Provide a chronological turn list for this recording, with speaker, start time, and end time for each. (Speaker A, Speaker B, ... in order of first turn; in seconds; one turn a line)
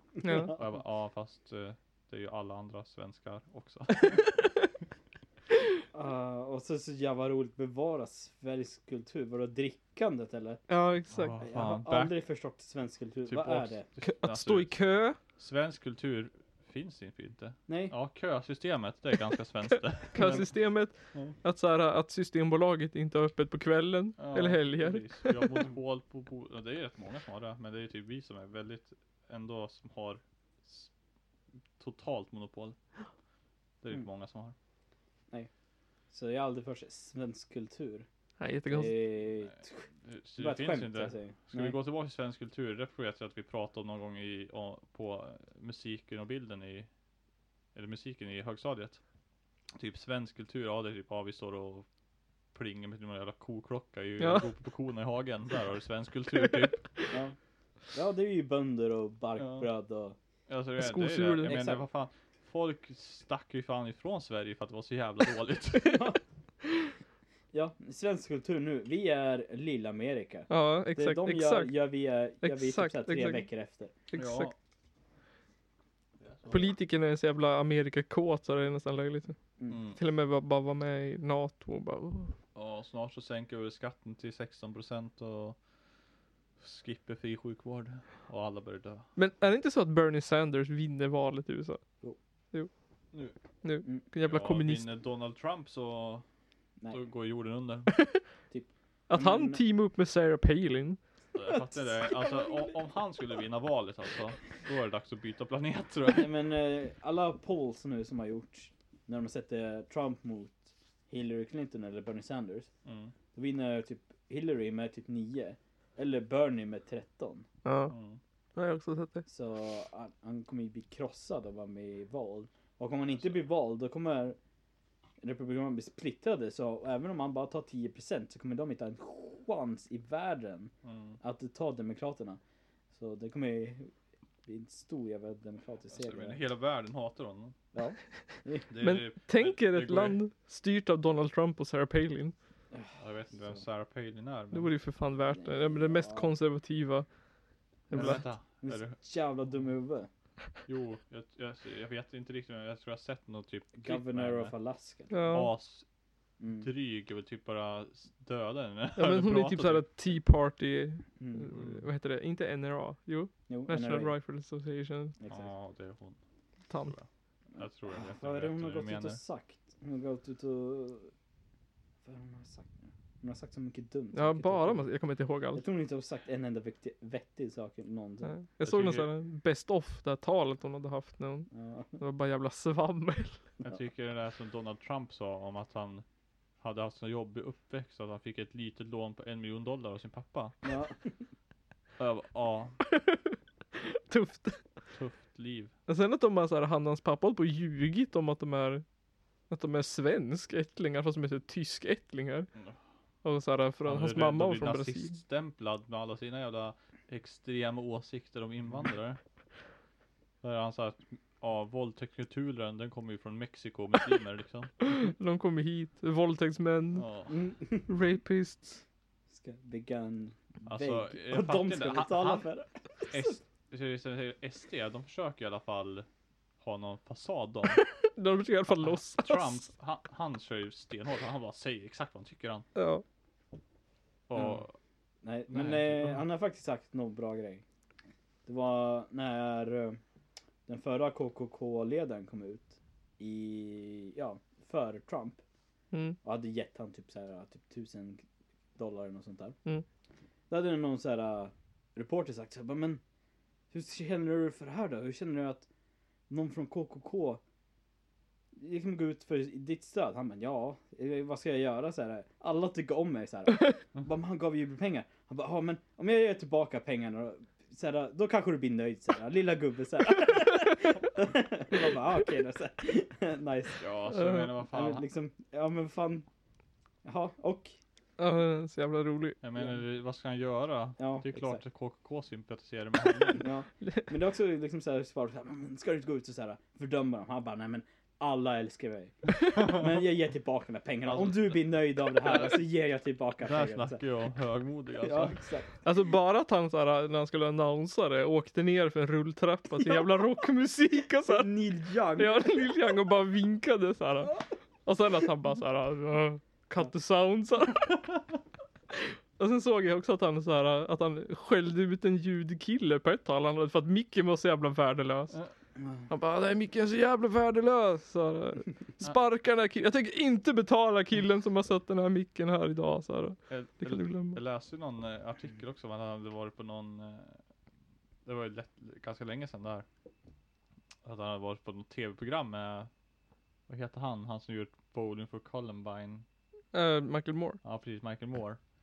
Speaker A: 0.2-0.6
Speaker B: 0.2-0.5
Speaker C: 0.5-4.3
Speaker A: 5.9-10.6
Speaker B: 10.7-11.4
Speaker C: 11.1-12.1
Speaker A: 11.4-13.8
Speaker C: 13.2-20.5
Speaker B: 14.0-15.2
Speaker A: 17.7-17.9
Speaker B: 20.1-25.6
Speaker C: 24.2-30.9
Speaker C: 31.8-32.8
Speaker C: 33.8-34.5
Speaker A: 36.1-38.1
Speaker B: 38.4-39.0
Speaker A: 38.7-39.9
Speaker C: 39.4-46.9
Speaker A: 40.4-41.8
Speaker C: 47.7-49.0
Speaker C: 49.8-51.9
Speaker C: 52.5-56.9
Speaker B: 54.2-54.5
Speaker A: 57.1-57.4
Speaker A: 57.9-60.1
Speaker C: 59.4-59.7
Speaker C: 60.5-66.1
Speaker B: 60.8-61.5
Speaker A: 61.4-61.8
Speaker A: 65.8-66.2
Speaker A: 67.5-73.9
Speaker B: 70.5-71.9
Speaker B: 72.4-73.5
Speaker B: 74.1-74.5
Speaker C: 74.1-74.5
Speaker C: 76.2-76.7
Speaker B: 76.5-79.4
Speaker C: 79.7-80.0
Speaker B: 79.9-82.3
Speaker C: 82.5-85.6
Speaker C: 86.6-89.0
Speaker B: 89.2-91.8
Speaker B: 93.6-94.9
Speaker C: 94.2-96.2
Speaker C: 96.9-97.9
Speaker B: 97.9-98.2
Speaker A: 98.5-99.6
Speaker B: 99.1-101.0
Speaker C: 101.3-106.3
Speaker A: 106.1-112.7
Speaker C: 112.8-113.1
Speaker A: 113.3-117.5
Speaker B: 117.6-117.9
Speaker C: 117.9-118.2
Speaker B: 118.5-119.2
Speaker A: 119.3-124.4
Speaker C: 123.1-123.4
Speaker A: 125.2-132.4
Speaker C: 130.8-131.2
Speaker A: 132.9-133.9
Speaker A: 134.4-136.4
Speaker C: 135.9-137.6
Speaker A: 137.7-138.7
Speaker C: 138.7-140.2
Speaker B: 138.8-142.3
Speaker A: 142.7-143.6
Speaker C: 143.0-144.7
Speaker B: 144.5-147.1
Speaker A: 145.3-146.3
Speaker B: 147.9-148.3
Speaker C: 147.9-149.7
Speaker A: 147.9-150.1
Speaker C: 150.7-154.5
Speaker A: 153.7-155.2
Speaker B: 155.1-155.5
Speaker C: 155.3-155.8
Speaker A: 156.4-156.7
Speaker C: 156.6-159.8
Speaker B: 159.0-165.2
Speaker A: 161.2-161.5
Speaker C: 161.5-161.8
Speaker A: 163.5-164.1
Speaker A: 165.2-165.5
Speaker C: 165.3-166.2
Speaker B: 166.7-166.9
Speaker C: 166.8-169.2
Speaker A: 167.5-171.1
Speaker A: 172.0-174.9
Speaker B: 174.1-175.6
Speaker A: 175.5-178.3
Speaker B: 178.2-183.4
Speaker C: 178.6-179.1
Speaker A: 181.5-182.0
Speaker C: 183.6-186.0
Speaker C: 186.6-190.6
Speaker A: 190.6-191.2
Speaker C: 192.0-192.8
Speaker B: 192.9-194.6
Speaker C: 194.9-195.7
Speaker B: 195.9-198.8
Speaker B: 199.5-202.5
Speaker B: 203.2-205.2
Speaker C: 203.8-209.2
Speaker C: 210.4-214.7
Speaker B: 214.8-217.1
Speaker C: 216.9-217.4
Speaker A: 217.3-217.9
Speaker B: 217.9-218.8
Speaker A: 219.3-223.3
Speaker C: 220.7-222.5
Speaker C: 223.0-226.1
Speaker C: 226.6-227.9
Speaker B: 227.9-229.6
Speaker C: 228.8-232.7
Speaker B: 232.7-233.0
Speaker C: 234.3-234.8
Speaker A: 234.3-234.6
Speaker A: 235.2-237.6
Speaker C: 235.5-236.2
Speaker A: 238.4-240.0
Speaker A: 240.7-245.4
Speaker B: 245.9-246.2
Speaker A: 246.2-248.2
Speaker A: 248.8-249.6
Speaker A: 250.5-253.0
Speaker A: 253.7-255.7
Speaker A: 256.3-257.4
Speaker A: 258.5-273.9
Speaker C: 273.8-275.0
Speaker B: 274.1-274.5
Speaker A: 274.6-276.2
Speaker A: 277.0-277.8
Speaker B: 278.2-279.4
Speaker C: 279.4-283.4
Speaker A: 281.0-281.6
Speaker A: 283.4-294.0
Speaker C: 289.5-289.8
Speaker C: 291.1-292.6
Speaker C: 293.4-295.4
Speaker A: 295.0-295.8
Speaker B: 295.8-301.5
Speaker A: 301.2-302.7
Speaker B: 302.1-308.2
Speaker B: 308.9-315.3
Speaker B: 316.1-324.4
Speaker C: 323.5-327.4
Speaker C: 328.2-329.9
Speaker C: 331.0-332.9
Speaker C: 333.7-336.2
Speaker B: 336.7-337.6
Speaker C: 337.6-338.6